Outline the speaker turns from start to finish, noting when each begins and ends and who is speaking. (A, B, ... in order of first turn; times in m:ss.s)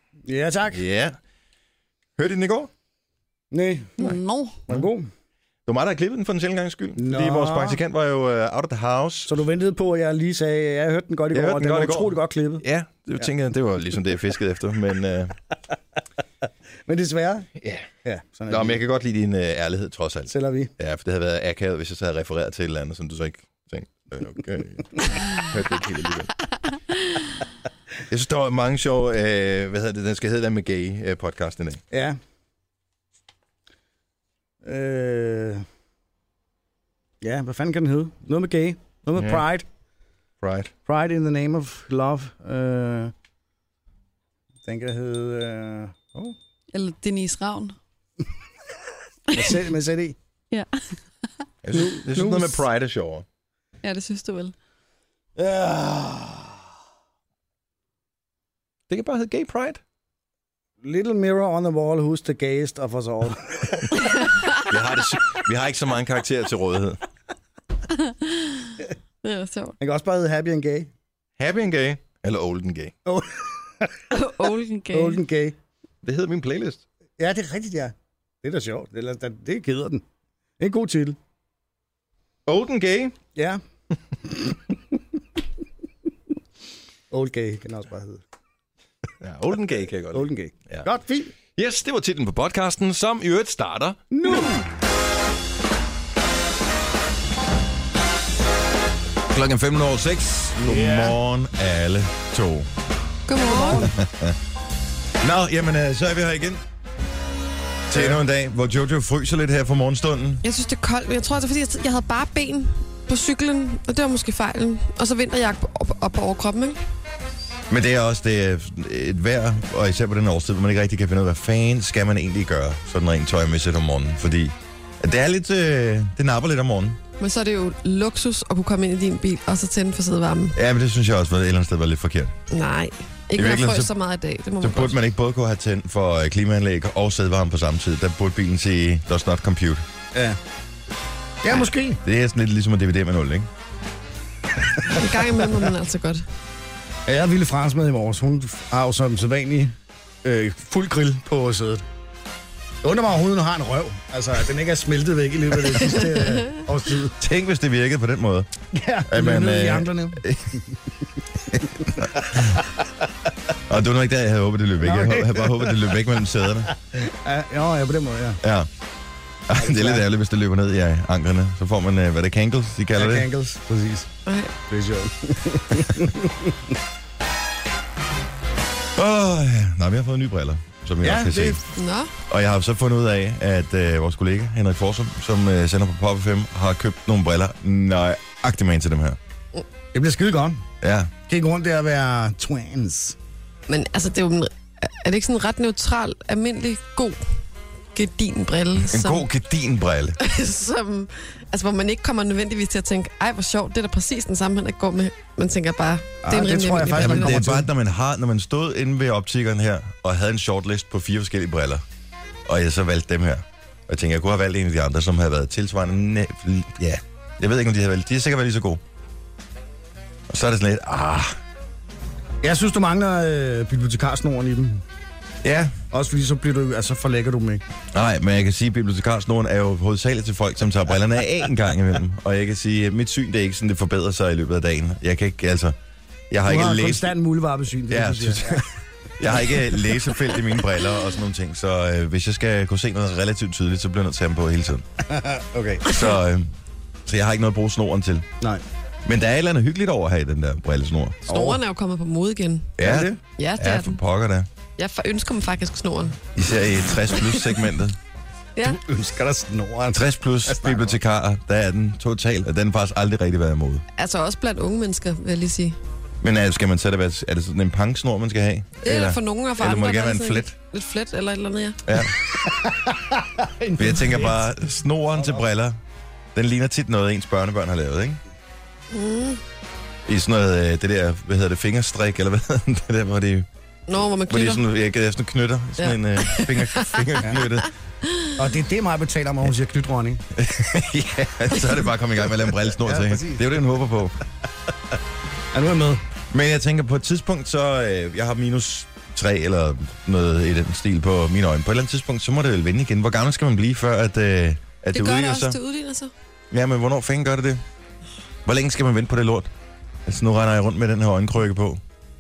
0:00.3-0:00.8 A
0:00.7-0:01.2 B
0:02.2-0:02.7 B
0:03.5-0:05.1 A
0:04.0-0:04.6 C
0:05.7-0:09.4 B
0:07.0-0:07.8 A
0:09.3-0:12.6 A
0:11.3-0:15.4 B
0:16.9-0:17.5 A
0:17.6-0:17.9 B
0:18.0-0:18.8 A
0:18.5-0:26.3 B
0:20.3-0:20.7 A
0:24.2-0:24.8 A
0:28.1-0:31.8 B
0:31.9-0:32.2 A
0:34.6-0:35.6 A
0:37.2-0:39.7 A
0:39.2-0:39.4 B
0:40.4-0:40.7 B
0:40.9-0:43.1 A
0:44.6-0:46.4 A
0:46.7-0:47.8 C
0:49.3-0:50.2 A
0:50.5-0:50.8 C
0:51.6-0:53.2 B
0:51.7-0:52.6 A
0:53.8-0:54.5 C
0:55.4-0:56.6 A
0:58.9-0:59.8 B
1:00.8-1:04.0 A
1:04.6-1:07.0 B
1:09.2-1:09.8 D
1:09.8-1:10.9 A
1:11.4-1:13.0 B
1:13.1-1:14.1 A
1:14.1-1:15.2 D
1:14.9-1:15.6 A
1:16.0-1:16.8 B
1:17.2-1:20.0 A
1:20.6-1:21.2 A
1:22.5-1:23.2 B
1:27.1-1:28.2 A
1:29.2-1:30.9 B
1:30.1-1:31.3 A
1:31.5-1:34.0 B
1:34.1-1:34.7 A
1:39.3-1:42.7 B
1:40.6-1:41.1 A
1:43.3-1:43.9 D
1:43.6-1:43.9 A
1:44.0-1:44.4 B
1:45.2-1:46.6 B
1:47.9-1:50.4 B
1:50.4-1:56.8 D
1:57.7-2:07.0 B
2:07.2-2:10.6 D
2:10.5-2:12.4 B
2:12.5-2:15.0 D
2:13.4-2:13.9 B
2:14.6-2:19.8 B
2:20.1-2:20.4 A
2:21.4-2:22.0 A
2:22.0-2:23.5 B
2:24.9-2:26.2 D
2:27.1-2:31.8 A
2:32.8-2:37.1 A
2:37.2-2:38.5 B
2:38.7-2:40.2 A
2:39.1-2:40.6 B
2:41.5-2:42.6 B
2:41.8-2:42.5 A
2:43.7-2:46.7 B
2:44.8-2:45.9 A
2:46.7-2:48.4 A
2:48.4-2:48.7 B
2:49.5-2:53.3 B
2:49.6-2:50.0 A
2:53.0-2:54.1 A
2:54.3-2:54.5 D
2:54.7-2:56.6 A
2:59.0-3:01.6 B
3:01.0-3:01.6 A
3:01.8-3:02.1 D
3:02.3-3:09.2 B
3:09.9-3:10.6 A
3:10.8-3:11.1 B
3:11.3-3:13.2 A
3:13.7-3:17.2 D
3:18.0-3:19.2 D
3:18.8-3:20.2 B
3:20.2-3:27.4 D
3:26.2-3:27.7 A
3:26.9-3:31.8 B
3:32.5-3:38.8 B
3:40.3-3:41.4 B
3:42.4-3:44.8 A
3:45.4-3:45.8 B
3:45.9-3:47.6 A
3:47.9-3:55.8 B
3:56.3-3:57.1 B
3:56.5-3:58.6 A
3:57.9-4:04.9 B
4:05.1-4:05.9 A
4:05.8-4:06.5 B
4:07.1-4:08.3 B
4:09.0-4:11.2 B
4:11.3-4:12.8 D
4:11.3-4:11.6 A
4:12.8-4:14.5 B
4:12.8-4:13.2 A
4:13.4-4:14.0 D
4:14.8-4:16.2 D
4:16.4-4:18.0 B
4:18.7-4:21.0 A
4:19.9-4:23.8 B
4:24.0-4:25.8 D
4:26.2-4:30.5 B
4:28.8-4:31.8 D
4:31.9-4:32.2 B
4:32.4-4:34.4 A
4:33.8-4:35.8 B
4:36.4-4:38.2 B
4:38.9-4:39.4 D
4:40.1-4:43.5 B
4:43.9-4:44.6 D
4:44.3-4:47.7 B
4:45.8-4:47.5 D
4:48.4-4:50.2 A
4:50.3-4:54.2 B
4:52.8-4:53.6 A
4:55.5-4:56.0 A
4:56.3-5:05.6 B
5:04.9-5:06.1 D
5:06.5-5:07.6 B
5:08.4-5:09.5 B
5:10.1-5:11.8 B